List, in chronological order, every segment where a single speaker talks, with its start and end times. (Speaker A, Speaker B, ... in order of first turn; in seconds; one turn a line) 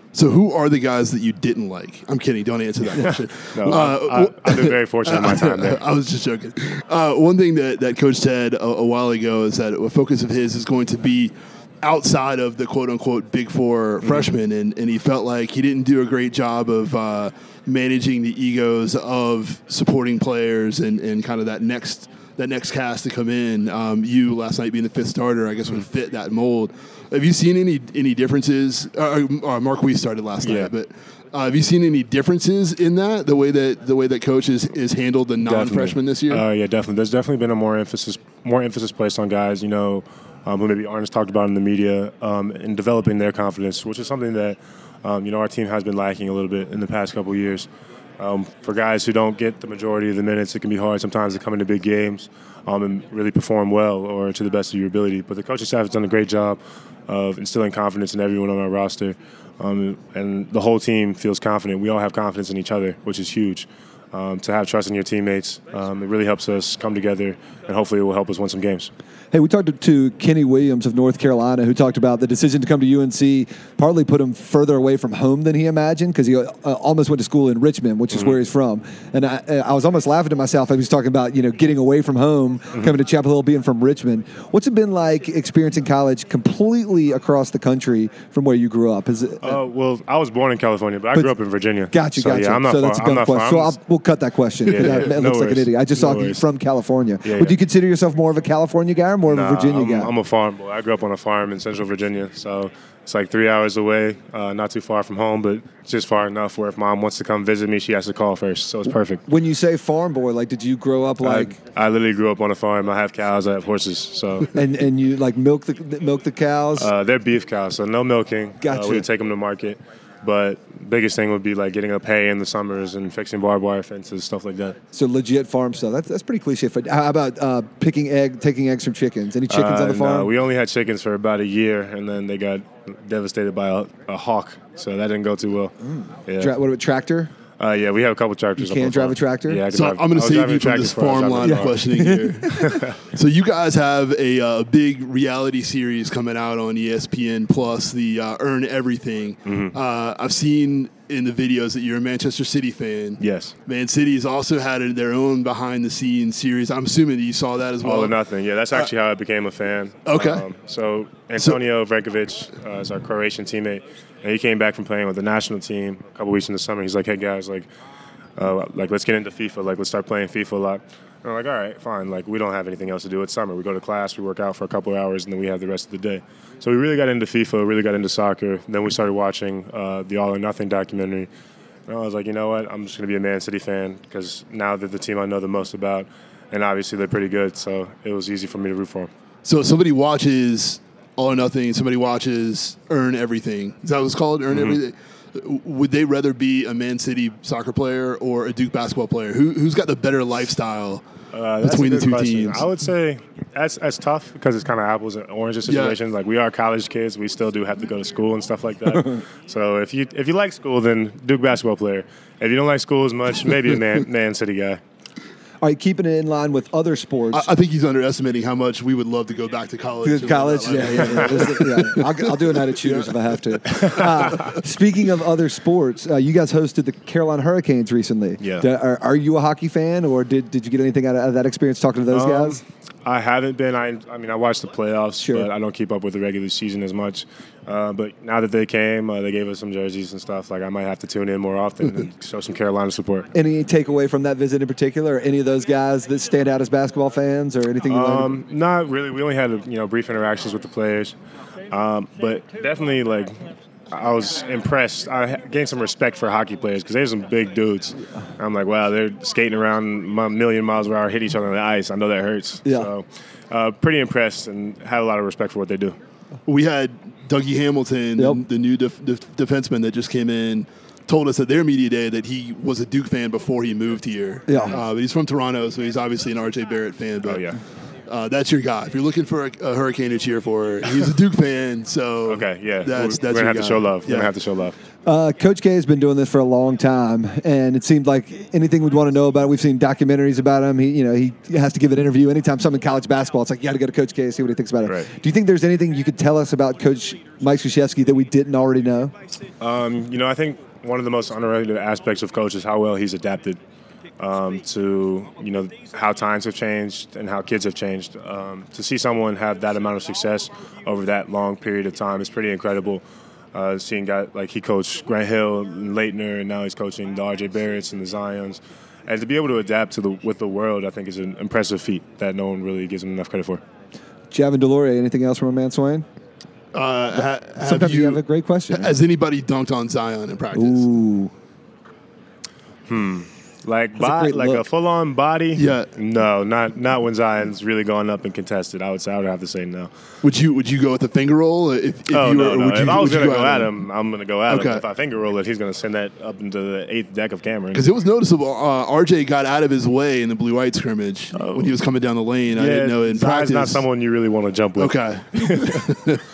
Speaker A: 0.1-36.4
Speaker B: 3.5-5.8
Speaker B: 14.0-14.3
Speaker B: 30.4-30.7
Speaker B: 35.4-47.7
Speaker B: 48.2-68.9
Speaker C: 69.3-89.6
Speaker B: 89.4-93.8
Speaker C: 91.9-100.1
Speaker B: 94.7-96.4
Speaker B: 97.2-97.5
Speaker B: 99.3-109.2
Speaker C: 109.2-111.6
Speaker B: 111.2-114.5
Speaker C: 114.5-116.9
Speaker B: 116.8-124.7
Speaker C: 118.6-119.0
Speaker C: 124.9-130.3
Speaker B: 129.5-135.7
Speaker C: 135.8-137.3
Speaker B: 136.3-136.5
Speaker B: 137.6-141.9
Speaker C: 138.6-139.6
Speaker A: 139.7-142.6
Speaker C: 141.4-142.7
Speaker B: 142.5-142.9
Speaker A: 143.1-158.2
Speaker B: 149.4-149.7
Speaker B: 153.2-153.5
Speaker B: 157.8-167.7
Speaker A: 160.1-160.4
Speaker B: 168.4-181.3
Speaker B: 181.9-189.1
Speaker A: 189.4-201.0
Speaker B: 194.5-194.8
Speaker B: 201.3-214.8
Speaker A: 201.6-202.7
Speaker A: 205.6-206.0
Speaker C: 215.6-217.5
Speaker A: 217.3-223.1
Speaker C: 220.0-232.6
Speaker B: 220.9-221.4
Speaker B: 223.7-224.2
Speaker B: 228.4-228.6
Speaker B: 232.1-243.3
Speaker C: 235.2-235.5
Speaker C: 243.3-248.3
Speaker B: 247.9-251.1
Speaker B: 251.7-266.0
Speaker A: 266.4-277.5
Speaker C: 274.5-274.8
Speaker B: 277.2-277.6
Speaker A: 278.1-284.3
Speaker B: 282.3-284.8
Speaker C: 285.0-299.1
Speaker B: 299.6-303.6
Speaker B: 304.2-323.6
Speaker C: 324.3-326.0
Speaker A: 326.7-330.9
Speaker C: 327.6-328.9
Speaker C: 330.5-331.3
Speaker B: 332.9-339.9
Speaker C: 333.9-334.6
Speaker A: 335.5-335.9
Speaker A: 340.2-343.7
Speaker B: 342.1-347.8
Speaker A: 344.5-344.8
Speaker A: 347.7-353.9
Speaker B: 351.3-351.7
Speaker B: 352.5-355.8
Speaker A: 354.8-356.2